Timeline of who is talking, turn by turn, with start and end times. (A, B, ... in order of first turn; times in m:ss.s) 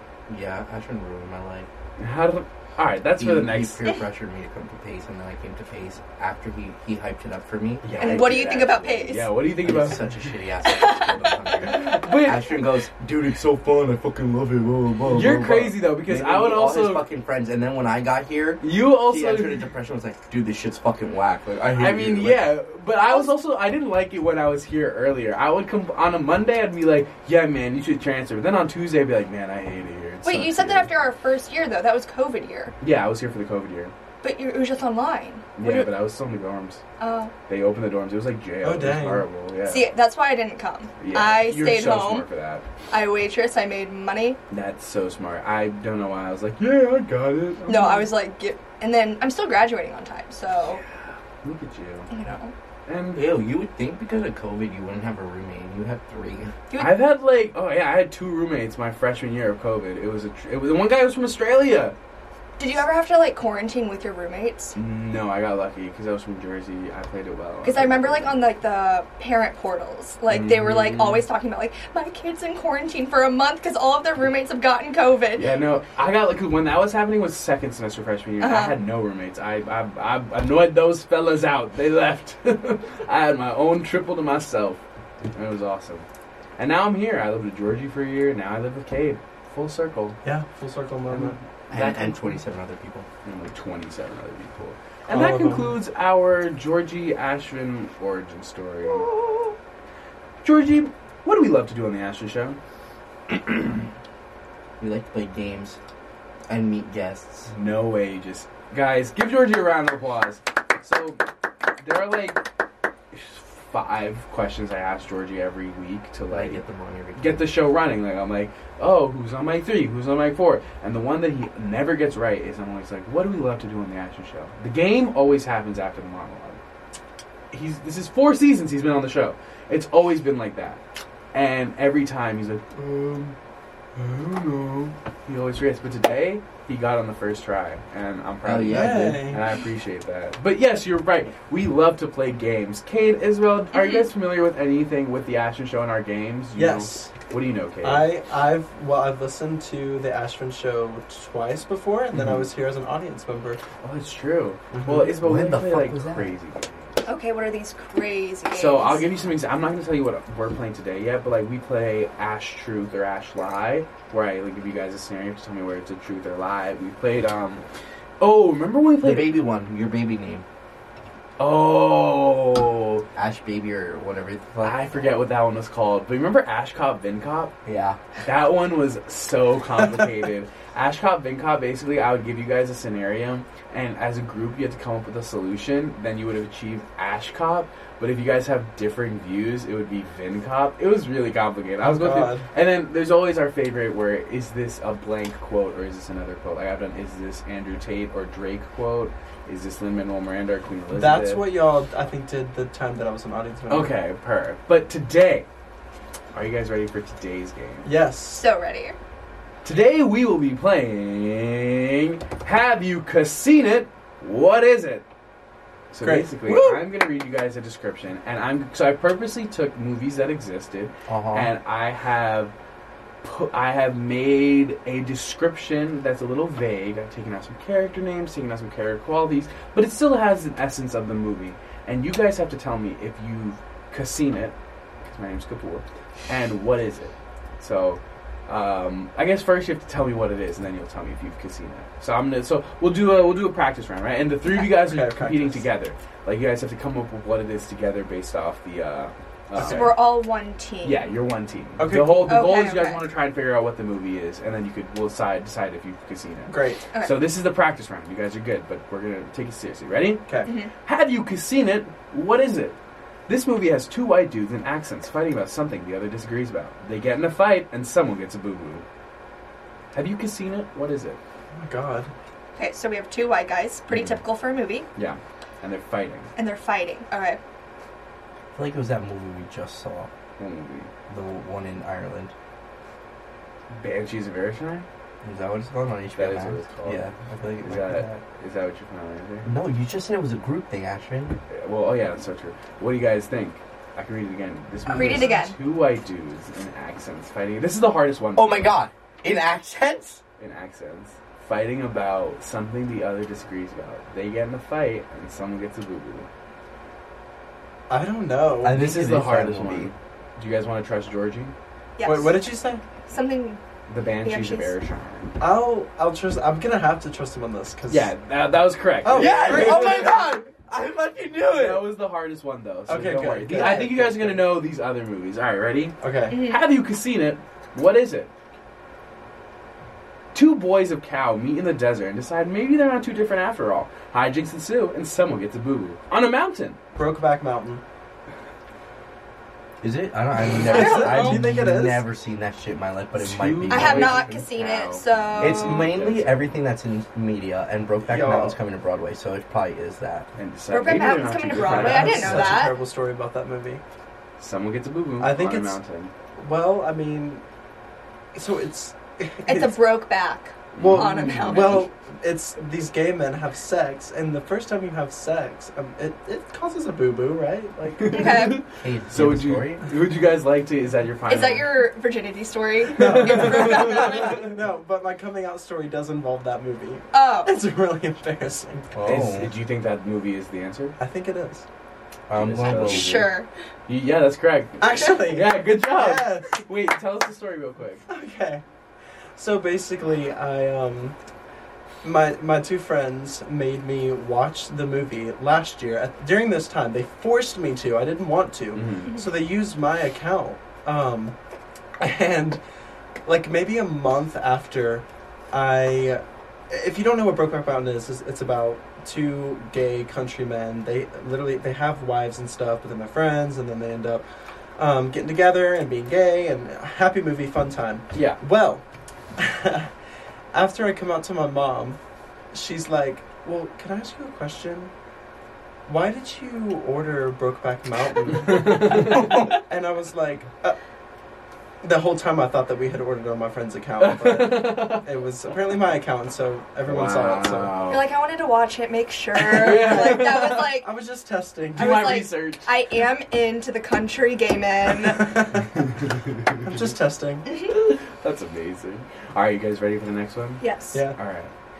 0:00.3-0:01.7 A
0:02.0-0:03.9 B
0:03.2-0:08.6 A
0:07.8-0:10.3 B
0:08.0-0:09.3 C
0:09.6-0:22.5 A
0:10.6-0:11.5 C
0:11.6-0:12.5 B
0:15.0-0:17.0 B
0:18.6-0:19.6 B
0:21.7-0:30.9 B
0:30.2-0:32.7 C
0:32.8-0:33.9 B
0:34.2-0:35.9 C
0:35.6-0:36.8 B
0:37.0-0:37.3 C
0:37.5-0:39.9 B
0:38.6-0:39.3 D
0:39.7-0:42.2 C
0:41.0-0:42.6 B
0:42.9-0:44.4 C
0:44.5-0:48.1 B
0:47.7-0:50.8 C
0:51.4-0:52.1 B
0:52.1-0:52.5 C
0:52.9-0:53.3 B
0:53.1-0:56.5 A
0:56.7-0:57.0 C
0:56.8-1:01.9 B
1:02.6-1:04.7 C
1:04.7-1:08.4 B
1:07.6-1:15.5 C
1:10.3-1:11.2 B
1:15.4-1:26.0 B
1:18.4-1:18.8 C
1:26.6-1:30.2 B
1:30.2-1:31.4 D
1:31.1-1:32.4 B
1:31.7-1:33.1 A
1:33.2-1:39.1 B
1:35.1-1:35.7 D
1:39.1-1:39.5 A
1:40.4-1:42.6 B
1:43.3-1:43.9 B
1:44.8-1:45.8 A
1:46.5-1:47.5 A
1:47.5-1:51.2 B
1:51.8-1:52.4 B
1:53.1-1:56.6 B
1:56.3-1:57.4 A
1:57.2-2:06.6 B
2:07.5-2:10.8 B
2:11.3-2:13.4 B
2:14.0-2:28.1 B
2:18.4-2:19.3 A
2:18.7-2:19.4 D
2:23.7-2:24.1 C
2:26.5-2:27.1 D
2:27.8-2:33.6 D
2:32.1-2:32.5 B
2:33.8-2:36.9 B
2:34.7-2:35.1 D
2:35.1-2:36.3 A
2:37.0-2:39.0 C
2:38.5-2:47.6 B
2:48.2-2:49.3 B
2:49.0-2:50.4 A
2:51.4-2:53.0 B
2:53.1-2:55.0 A
2:54.6-2:57.5 B
2:57.6-2:58.0 A
2:58.2-3:21.4 B
3:11.8-3:12.4 D
3:20.9-3:23.9 D
3:23.7-3:25.5 B
3:26.3-3:27.9 B
3:27.8-3:28.4 D
3:28.3-3:29.0 C
3:29.6-3:35.0 B
3:35.9-3:42.5 B
3:36.0-3:36.8 D
3:41.1-3:41.5 A
3:43.2-4:10.0 B
4:04.6-4:05.6 D
4:09.6-4:09.9 D
4:09.6-4:11.0 C
4:10.8-4:20.2 B
4:11.8-4:12.5 D
4:12.3-4:13.0 C
4:16.5-4:16.8 D
4:20.4-4:20.7 C
4:20.8-4:22.8 B
4:23.3-4:28.8 B
4:29.9-4:31.2 B
4:31.5-4:32.1 D
4:32.6-4:34.9 C
4:33.9-4:34.2 B
4:34.9-4:36.3 B
4:36.4-4:37.4 C
4:38.5-4:40.1 A
4:40.4-4:40.9 B
4:41.1-4:42.3 A
4:43.7-4:44.8 B
4:45.2-4:48.2 A
4:46.1-4:47.1 B
4:47.6-4:49.5 B
4:49.4-4:51.4 A
4:51.5-4:58.7 B
4:54.9-4:55.6 C
4:58.4-5:00.2 A
5:00.4-5:06.3 B
5:07.9-5:08.8 D
5:08.6-5:09.9 A
5:08.7-5:11.5 B
5:12.0-5:12.4 C
5:12.0-5:12.8 D
5:13.1-5:13.6 C
5:13.9-5:15.4 B
5:14.2-5:14.7 C
5:15.4-5:18.1 D
5:17.9-5:20.1 B
5:19.0-5:20.5 D
5:19.1-5:21.9 A
5:21.5-5:28.3 B
5:22.9-5:24.5 D
5:26.0-5:26.4 D
5:26.3-5:26.6 C
5:30.3-5:36.8 B
5:37.0-5:37.8 D
5:39.8-5:44.4 A
5:40.5-5:42.0 D
5:40.6-5:41.5 C
5:43.1-5:46.5 B
5:43.7-5:45.9 C
5:45.4-5:50.3 A
5:48.0-5:48.6 D
5:50.4-5:52.5 B
5:50.7-5:52.8 C
5:51.6-5:53.8 D
5:54.4-5:56.1 B
5:55.2-5:55.8 D
5:56.4-5:57.4 D
5:58.3-5:59.8 D
5:59.4-6:01.8 C
6:00.7-6:01.8 B
6:00.8-6:08.4 D
6:08.0-6:11.7 B
6:08.1-6:08.6 C
6:08.8-6:09.8 A
6:11.3-6:14.4 C
6:12.9-6:14.2 B
6:13.0-6:18.9 D
6:17.1-6:17.5 C
6:18.9-6:19.5 A
6:19.0-6:21.0 B
6:21.0-6:21.6 D
6:22.3-6:23.3 A
6:22.4-6:23.3 B
6:22.6-6:23.5 C
6:23.9-6:28.0 B
6:24.8-6:26.6 D
6:28.1-6:28.6 D
6:29.4-6:31.2 D
6:32.0-6:41.3 D
6:38.7-6:39.1 B
6:42.0-6:42.6 D
6:43.2-6:54.2 D
6:54.8-6:58.8 D
6:58.1-6:58.4 B
6:59.4-6:59.9 D
7:00.5-7:02.0 D
7:02.5-7:04.9 D
7:05.9-7:10.8 D
7:08.3-7:09.5 B
7:11.8-7:17.8 D
7:14.0-7:15.0 B
7:16.8-7:18.1 B
7:17.9-7:20.9 C
7:19.3-7:20.7 B
7:19.5-7:22.2 D
7:21.7-7:22.7 B
7:21.7-7:25.3 C
7:25.1-7:25.8 D
7:25.9-7:26.6 B
7:26.6-7:27.4 D
7:27.4-7:27.8 C
7:27.7-7:30.6 B
7:30.6-7:31.0 C
7:31.1-7:31.5 B